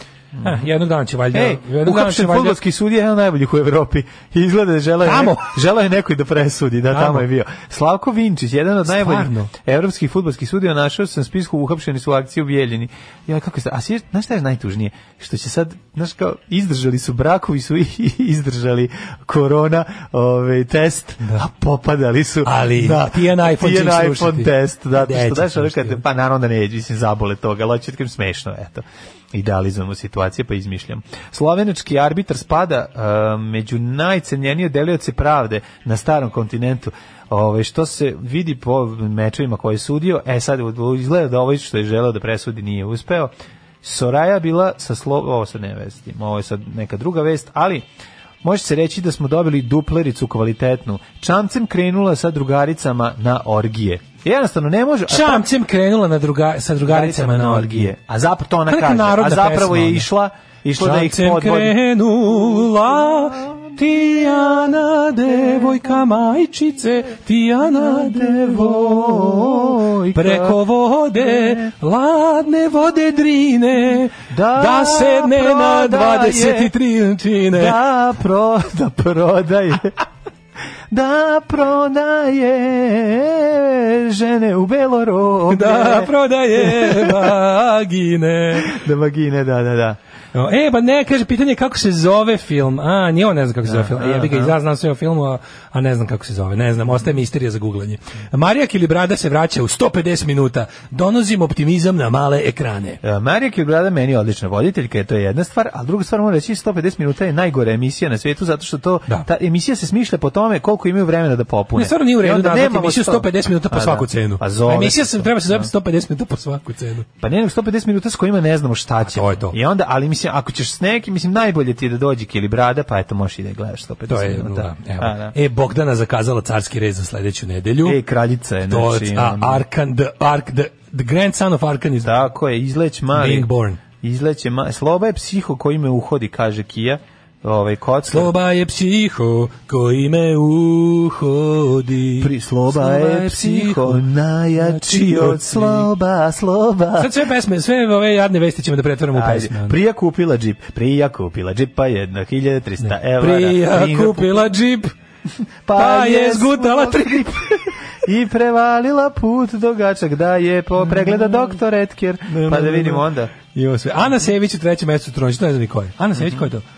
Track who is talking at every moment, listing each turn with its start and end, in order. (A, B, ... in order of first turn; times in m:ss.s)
0:00.4-0:00.7 A
0:00.4-0:02.6 B
0:01.3-0:43.3 A
0:05.0-0:05.5 B
0:06.9-0:07.2 B
0:08.9-0:09.5 B
0:22.4-0:26.0 B
0:43.8-0:47.9 A
0:48.4-0:55.4 A
0:55.1-0:57.9 B
0:56.9-1:01.8 A
0:58.7-1:00.1 B
1:00.8-1:17.8 B
1:07.6-1:10.6 A
1:11.3-1:11.6 A
1:14.3-1:16.7 A
1:17.5-1:20.0 A
1:20.9-1:27.4 A
1:25.5-1:28.8 B
1:28.6-1:30.0 A
1:30.3-1:43.0 B
1:33.6-1:34.6 A
1:43.0-1:55.7 A
1:51.8-1:57.1 B
1:57.2-2:05.4 A
1:59.0-1:59.6 B
2:04.1-2:08.0 B
2:07.8-2:09.6 A
2:08.7-2:12.1 B
2:12.0-2:13.5 A
2:13.1-2:13.8 B
2:14.0-2:18.3 A
2:18.1-2:24.0 B
2:22.2-2:27.1 A
2:24.6-2:25.9 B
2:27.0-2:29.8 B
2:29.1-2:34.4 A
2:32.8-2:34.9 B
2:35.7-2:43.3 A
2:35.8-2:37.7 B
2:42.3-2:46.6 B
2:46.2-2:46.5 A